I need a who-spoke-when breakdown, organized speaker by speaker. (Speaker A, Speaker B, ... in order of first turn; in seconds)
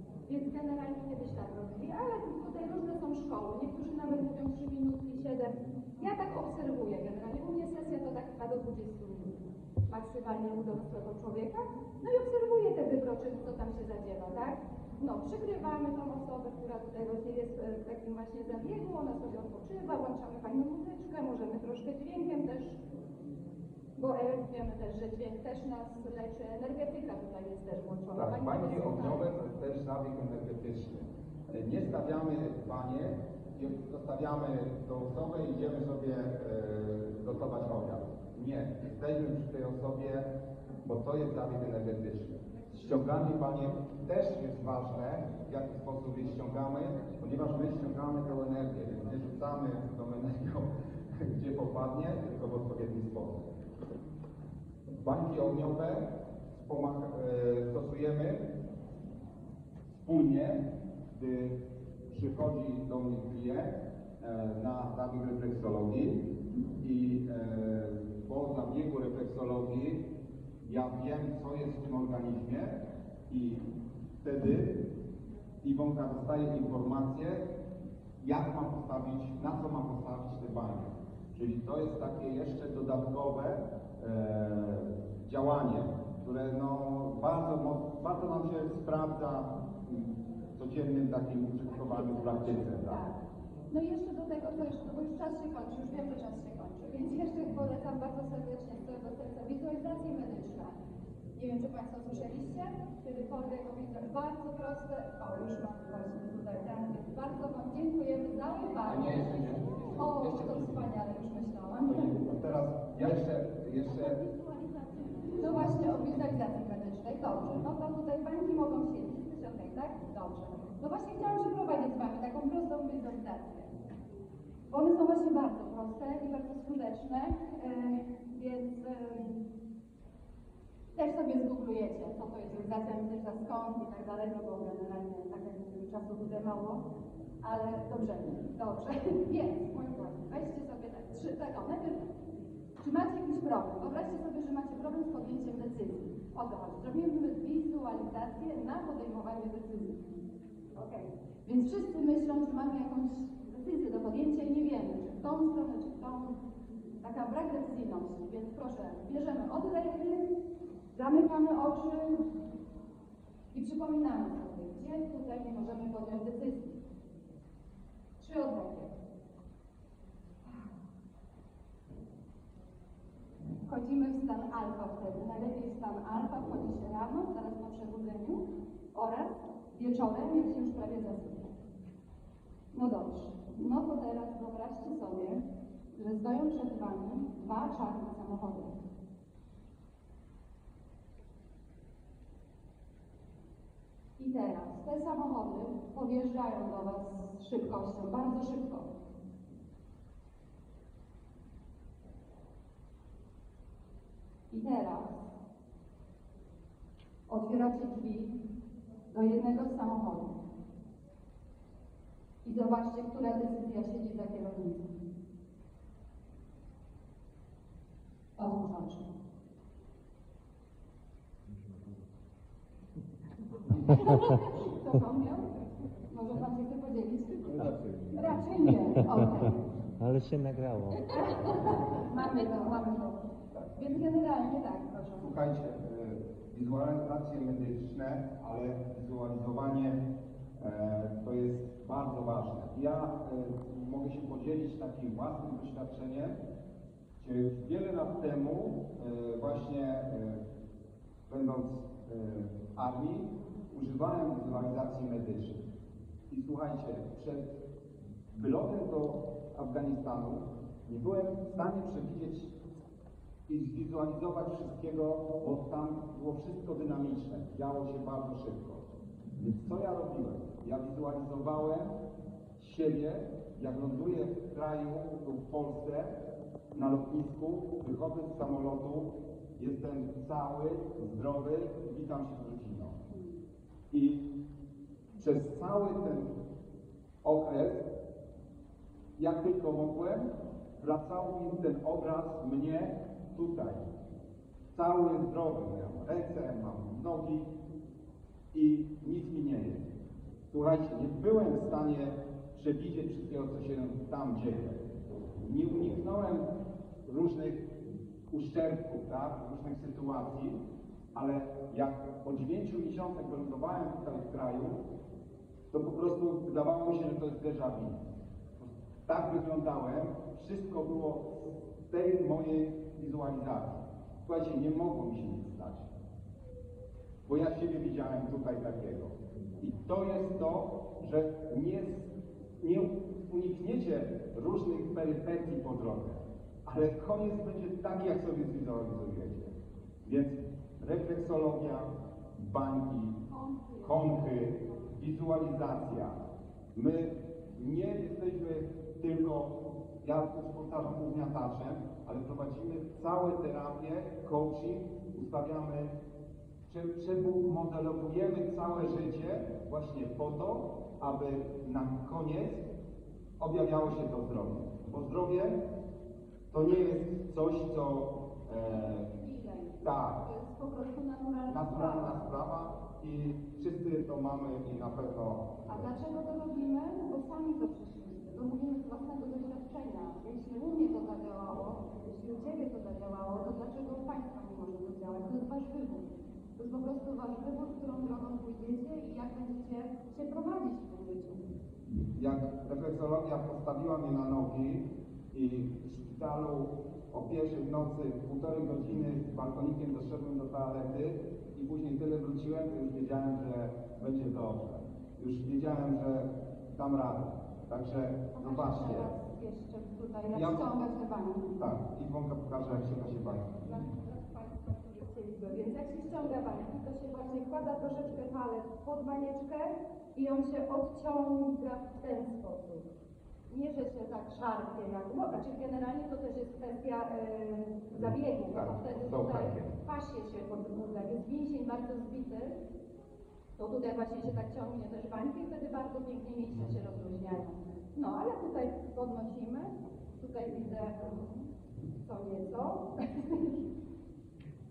Speaker A: 0.3-22.8, 24.0-29.3, 91.7-93.2, 93.7-100.8, 101.4-112.2, 113.9-123.7, 124.7-129.4, 130.9-136.9, 137.4-142.1, 142.8-150.0, 150.8-156.4, 157.0-160.3, 160.9-162.2, 163.5-166.8, 168.2-168.9, 173.7-181.5, 182.7-188.8, 194.2-198.9, 204.5-205.3, 207.3-208.4, 209.1-210.4, 212.4-214.9, 218.4-219.0, 223.7-225.5, 226.1-229.7, 231.0-235.3, 283.1-283.4, 343.3-344.7, 368.8-372.3, 375.7-391.4, 408.4-411.6, 413.6-422.9, 423.5-432.6, 433.6-441.3, 442.0-443.6
Speaker B: 28.1-40.3, 40.8-53.5, 55.0-58.5, 59.9-61.6, 62.1-66.3, 66.8-70.1, 70.6-73.7, 74.2-74.8, 75.6-77.5, 78.2-93.0, 108.9-110.9, 111.8-114.2, 235.2-240.0, 240.6-246.4, 247.2-250.4, 251.3-255.7, 256.3-257.5, 258.3-262.6, 263.5-271.9, 272.6-276.2, 276.7-283.0, 283.9-284.2, 285.2-286.3, 287.2-287.8, 289.2-290.3, 290.8-293.8, 294.7-297.5, 298.5-299.8, 300.5-304.9, 305.4-306.5, 307.1-307.7, 308.3-310.6, 311.1-314.8, 315.7-318.1, 318.6-325.9, 327.3-343.2, 343.8-346.2, 346.7-355.9, 356.7-362.7, 363.4-365.6, 366.5-369.1, 369.8-370.2, 371.5-375.9, 392.0-409.1, 410.3-410.7, 411.6-413.6, 428.0-429.8
Speaker C: 227.6-228.3, 229.1-229.3, 230.0-231.6